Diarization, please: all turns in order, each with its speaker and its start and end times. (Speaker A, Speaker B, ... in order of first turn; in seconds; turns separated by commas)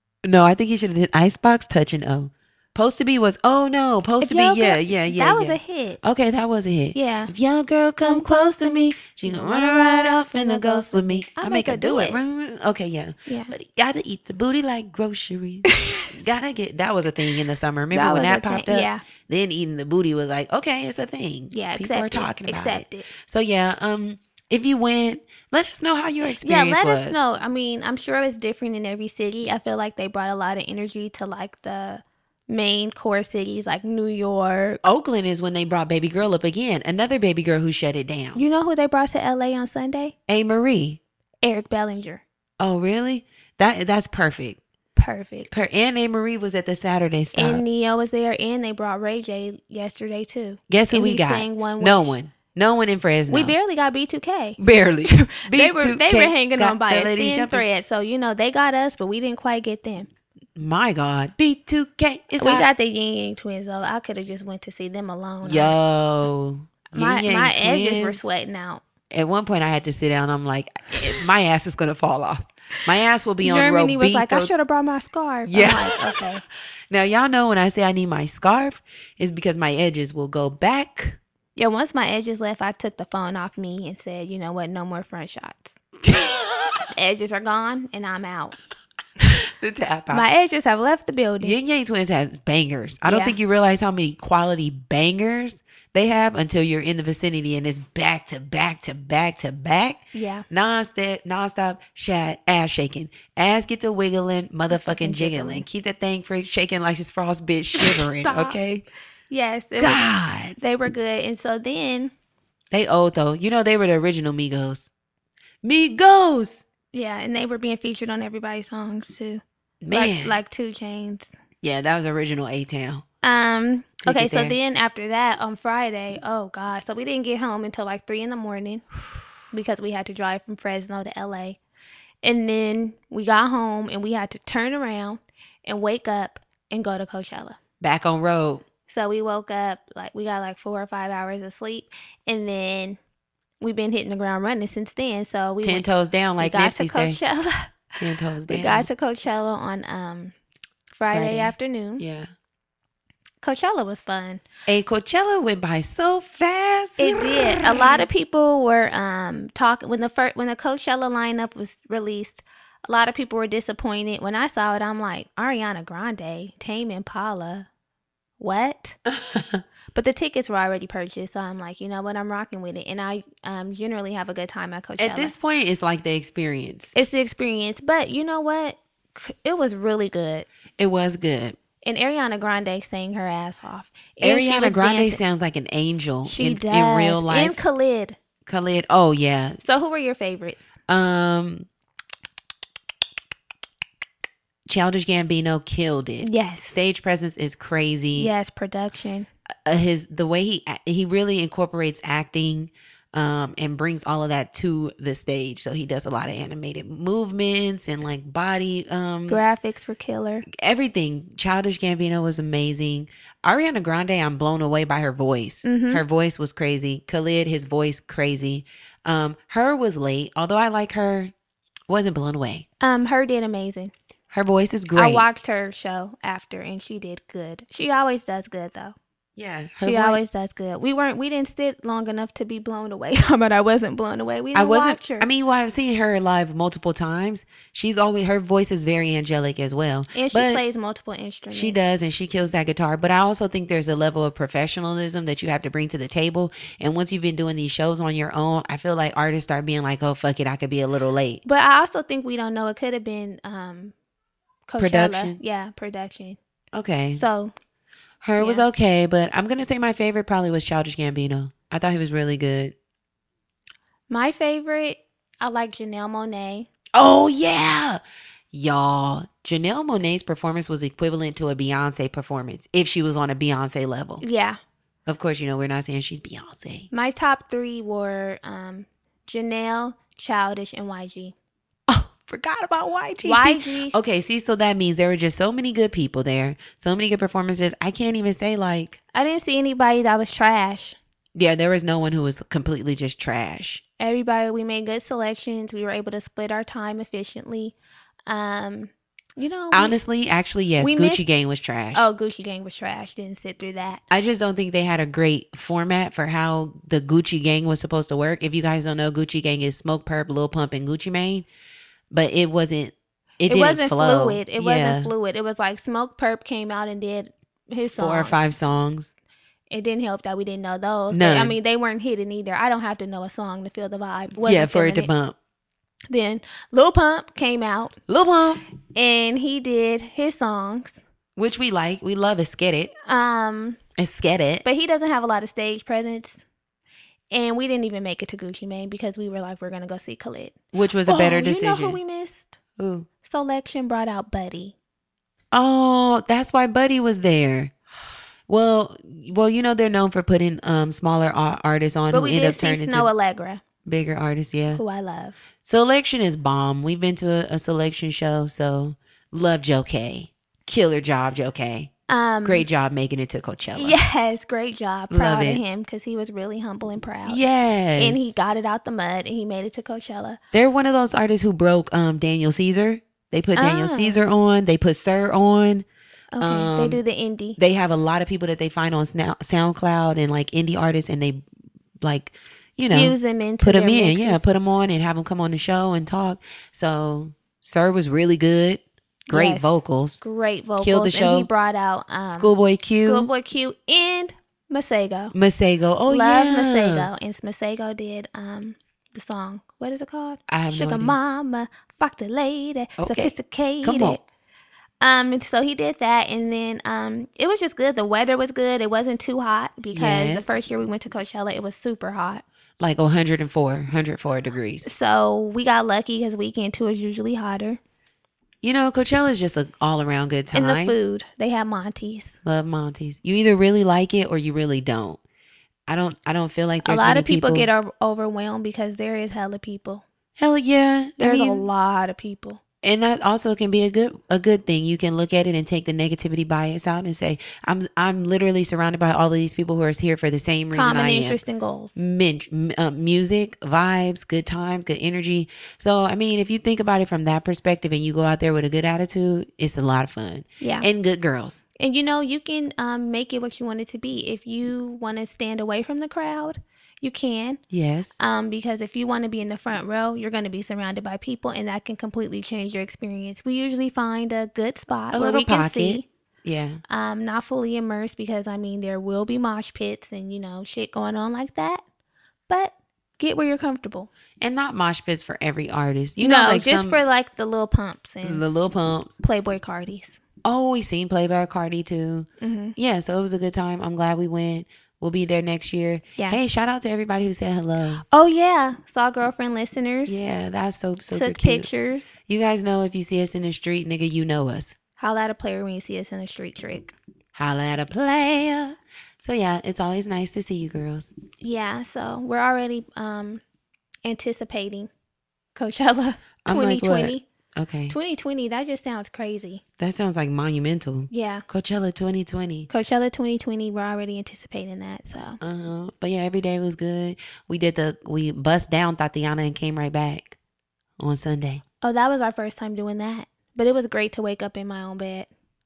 Speaker A: 0.2-27.2, Speaker B: 4.2-6.0, Speaker B: 6.9-7.3, Speaker B: 8.0-12.2, Speaker B: 13.3-13.5, Speaker B: 15.7-16.1, Speaker B: 17.9-19.0, Speaker B: 21.5-23.1, Speaker B: 26.4-34.8, Speaker A: 34.8-38.4, Speaker B: 38.3-40.1, Speaker A: 40.3-41.0, Speaker B: 41.4-42.2, Speaker A: 42.6-44.6, Speaker B: 45.0-45.5, Speaker A: 45.5-47.6, Speaker B: 47.3-52.1, Speaker A: 50.7-53.5, Speaker B: 53.3-60.1, Speaker A: 54.6-57.6, Speaker A: 60.5-62.7, Speaker B: 62.4-65.8, Speaker A: 65.4-68.2, Speaker B: 66.9-68.8, Speaker A: 69.1-74.5, Speaker B: 73.4-76.4, Speaker A: 75.5-76.3, Speaker A: 76.9-81.2, Speaker B: 81.5-85.8, Speaker A: 86.0-86.8, Speaker B: 86.9-88.6, Speaker A: 89.5-90.2, Speaker B: 90.1-91.5, Speaker A: 91.4-108.8, Speaker B: 93.0-93.4, Speaker B: 100.1-100.4, Speaker B: 104.7-105.6, Speaker B: 107.7-108.6, Speaker B: 109.3-112.1, Speaker A: 109.8-110.5, Speaker A: 112.7-114.9, Speaker A: 115.6-116.6, Speaker B: 116.9-121.3, Speaker A: 119.8-120.4, Speaker A: 121.6-123.0, Speaker B: 123.2-128.8, Speaker A: 124.0-124.5, Speaker B: 129.5-131.6, Speaker B: 132.2-137.6, Speaker A: 137.8-138.6, Speaker B: 138.9-143.0, Speaker B: 143.6-145.8, Speaker A: 145.6-147.2, Speaker B: 146.4-147.9, Speaker A: 148.0-148.9, Speaker B: 148.5-150.3, Speaker B: 150.9-152.0, Speaker A: 151.1-152.3, Speaker B: 153.4-154.4, Speaker A: 154.7-158.0, Speaker B: 157.0-167.7, Speaker B: 168.4-169.0, Speaker A: 169.1-169.6, Speaker B: 169.9-175.3, Speaker A: 175.0-176.9, Speaker B: 176.9-180.4, Speaker A: 180.8-181.6, Speaker B: 181.8-185.2, Speaker A: 184.2-187.6, Speaker B: 186.2-188.2, Speaker A: 188.4-189.6, Speaker B: 189.6-190.7, Speaker A: 190.9-191.7, Speaker A: 194.7-198.3, Speaker B: 196.2-196.7, Speaker B: 198.1-199.3, Speaker A: 199.6-209.4, Speaker B: 209.3-210.4, Speaker A: 210.5-221.3, Speaker B: 215.6-216.0, Speaker A: 221.9-222.6, Speaker B: 222.8-223.9, Speaker A: 224.3-225.2, Speaker B: 224.9-228.9, Speaker A: 229.3-230.2, Speaker B: 229.8-235.3, Speaker A: 234.5-240.6, Speaker B: 240.1-241.8, Speaker A: 241.5-251.4, Speaker B: 251.4-253.9, Speaker B: 254.7-256.4, Speaker A: 254.8-255.4, Speaker A: 256.7-257.2, Speaker B: 257.1-257.5, Speaker A: 258.2-262.7, Speaker B: 258.4-258.6, Speaker B: 264.1-266.7, Speaker A: 266.9-268.0, Speaker A: 268.5-274.2, Speaker B: 274.2-274.6, Speaker A: 275.1-276.9, Speaker B: 276.9-281.3, Speaker A: 281.9-289.0, Speaker B: 283.2-283.9, Speaker B: 289.1-291.0, Speaker A: 291.3-293.8, Speaker B: 294.0-297.7, Speaker B: 298.3-299.9, Speaker A: 299.7-302.1, Speaker B: 300.8-301.2, Speaker B: 301.9-304.0, Speaker A: 304.1-311.4, Speaker A: 312.1-315.1, Speaker B: 313.5-318.4, Speaker A: 318.0-319.1, Speaker B: 319.7-325.1, Speaker A: 321.1-321.6, Speaker A: 324.4-325.4, Speaker B: 326.1-328.0, Speaker A: 328.1-328.6, Speaker B: 328.9-331.0, Speaker A: 331.4-332.9, Speaker B: 333.1-333.8, Speaker A: 334.0-334.6, Speaker B: 334.6-336.4, Speaker B: 337.3-340.6, Speaker A: 340.7-342.0, Speaker B: 341.1-342.5, Speaker A: 342.8-343.1, Speaker B: 343.2-344.7, Speaker A: 345.5-347.7, Speaker A: 348.5-353.1, Speaker B: 352.1-353.6, Speaker A: 353.8-354.8, Speaker B: 354.7-355.4, Speaker A: 355.6-361.9, Speaker B: 362.1-362.7, Speaker A: 362.4-364.0, Speaker B: 363.7-367.4, Speaker A: 365.1-365.6, Speaker A: 367.2-368.3, Speaker B: 368.0-370.4, Speaker A: 370.5-375.8, Speaker B: 373.6-374.2, Speaker B: 376.3-377.6, Speaker A: 376.4-377.0, Speaker A: 377.6-381.4, Speaker A: 382.0-390.2, Speaker B: 382.9-384.4, Speaker B: 389.3-395.3, Speaker A: 390.8-391.5, Speaker A: 392.3-393.3, Speaker A: 395.3-397.1, Speaker B: 396.1-404.2, Speaker A: 400.5-401.2, Speaker A: 403.0-404.2, Speaker B: 405.0-412.4, Speaker A: 409.9-410.6, Speaker A: 412.8-414.9, Speaker B: 414.8-417.8, Speaker A: 418.6-420.9, Speaker B: 420.5-422.3, Speaker A: 422.4-425.2, Speaker A: 425.9-427.7, Speaker B: 426.8-430.0, Speaker A: 430.4-431.7, Speaker B: 431.2-432.6, Speaker A: 432.8-441.4, Speaker B: 440.7-442.0, Speaker A: 441.9-451.6, Speaker B: 450.6-450.9, Speaker B: 451.8-457.6, Speaker A: 457.7-458.1, Speaker B: 458.2-466.1, Speaker A: 465.1-466.8, Speaker B: 466.9-471.8, Speaker B: 472.5-474.1, Speaker A: 474.4-477.0, Speaker B: 476.2-478.4, Speaker A: 478.2-479.2, Speaker B: 479.2-480.2, Speaker A: 480.4-488.0, Speaker B: 482.4-482.7, Speaker B: 488.1-490.2, Speaker A: 490.1-491.7, Speaker B: 491.1-492.1, Speaker A: 492.3-494.8, Speaker B: 495.0-496.9, Speaker A: 497.3-501.1, Speaker B: 501.4-503.4, Speaker B: 504.0-504.9, Speaker B: 505.5-507.2, Speaker A: 506.4-507.9, Speaker B: 507.9-509.6, Speaker A: 509.8-512.7, Speaker B: 511.1-511.4, Speaker B: 512.7-515.4, Speaker A: 515.4-520.4, Speaker A: 521.0-521.6, Speaker B: 521.8-525.3